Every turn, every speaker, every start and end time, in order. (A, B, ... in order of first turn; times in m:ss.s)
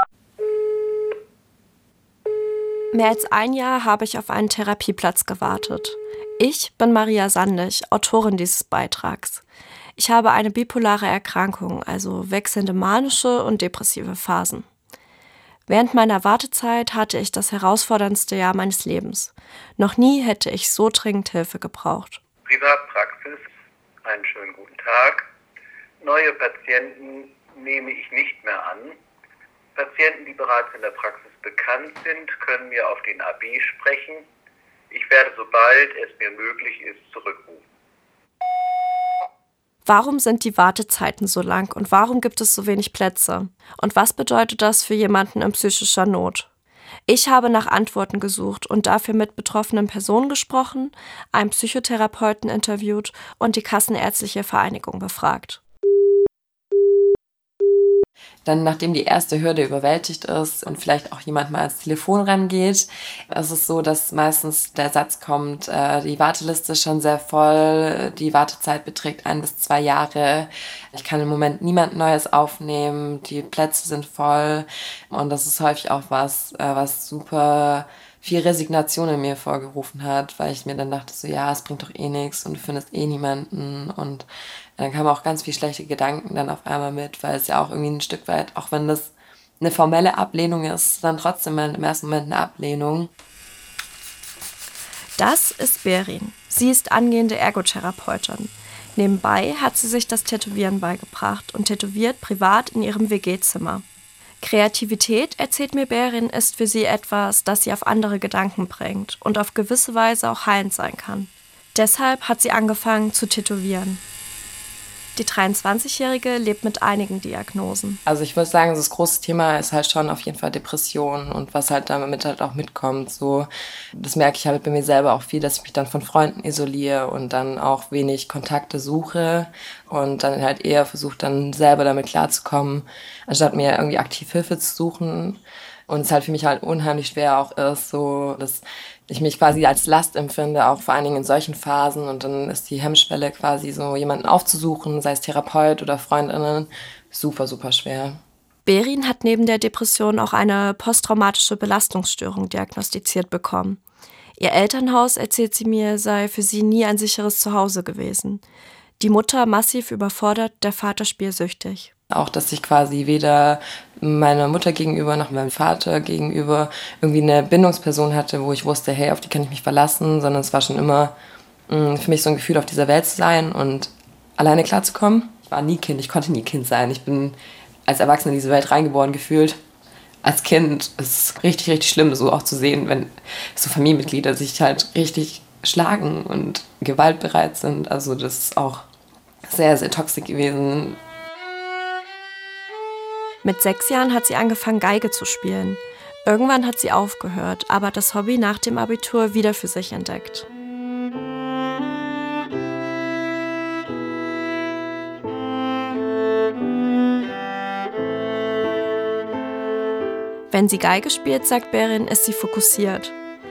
0:02.9-0:09.4 A
0:10.0-0:14.7 A
0:15.7-0:22.2 A
0:22.4-0:23.4 B
0:24.0-0:25.3 B
0:26.0-0:29.0 B
0:29.8-0:34.2 B
0:34.9-0:37.6 B
0:39.8-0:46.5 A
0:47.1-0:55.6 A
0:58.4-1:24.2 C
1:24.8-1:33.1 C
1:35.2-1:43.8 A
1:44.4-1:54.0 A
1:55.2-1:58.0 A
1:58.0-2:28.2 C
2:28.6-2:33.8 A
2:34.4-2:38.4 A
2:39.0-2:41.9 A
2:42.1-2:51.1 C
2:51.7-2:57.4 C
2:57.9-2:59.6 C
3:00.2-3:08.8 C
3:09.5-3:11.0 C
3:13.4-3:20.4 A
3:30.5-3:33.1 A